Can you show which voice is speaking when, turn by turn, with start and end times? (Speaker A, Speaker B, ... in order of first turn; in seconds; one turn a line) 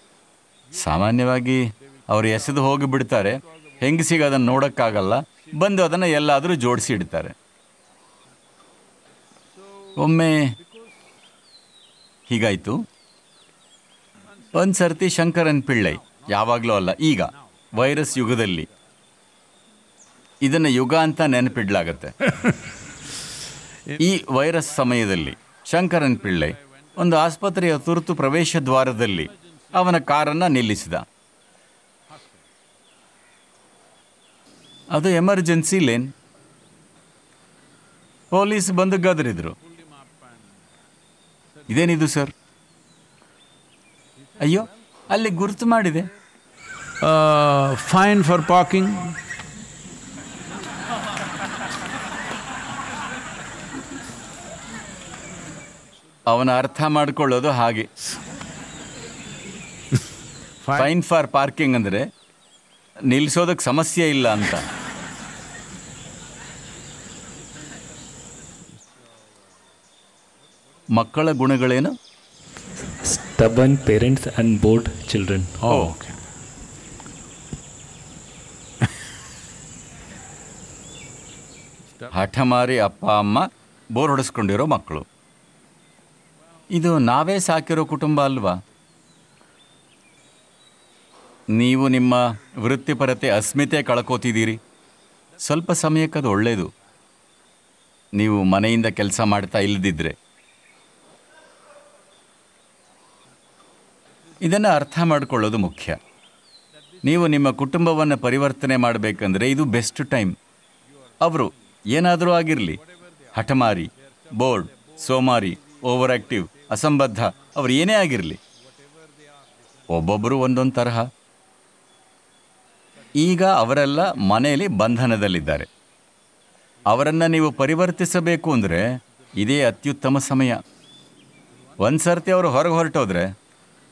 Speaker A: 0.7-7.3
Speaker A: 10.0-10.6
Speaker A: 12.3-12.8
Speaker A: 14.5-18.7
Speaker A: 20.4-22.1
Speaker A: 24.0-31.1
Speaker A: 34.9-36.1
Speaker A: 38.3-39.6
Speaker A: 41.7-42.3
Speaker A: 44.4-46.1
Speaker B: 47.0-49.2
Speaker A: 56.3-57.9
Speaker B: 60.6-60.9
Speaker A: 60.8-62.1
Speaker A: 63.1-64.7
Speaker A: 71.0-72.0
Speaker C: 73.0-75.8
Speaker B: 75.6-76.2
Speaker A: 75.7-75.9
Speaker A: 82.1-85.1
Speaker A: 86.7-88.6
Speaker A: 91.5-94.6
Speaker A: 95.4-96.7
Speaker A: 98.1-100.2
Speaker A: 104.4-106.0
Speaker A: 107.0-110.4
Speaker A: 111.2-112.8
Speaker A: 113.3-118.4
Speaker A: 119.9-121.1
Speaker A: 123.1-125.7
Speaker A: 126.9-130.6
Speaker A: 131.8-133.3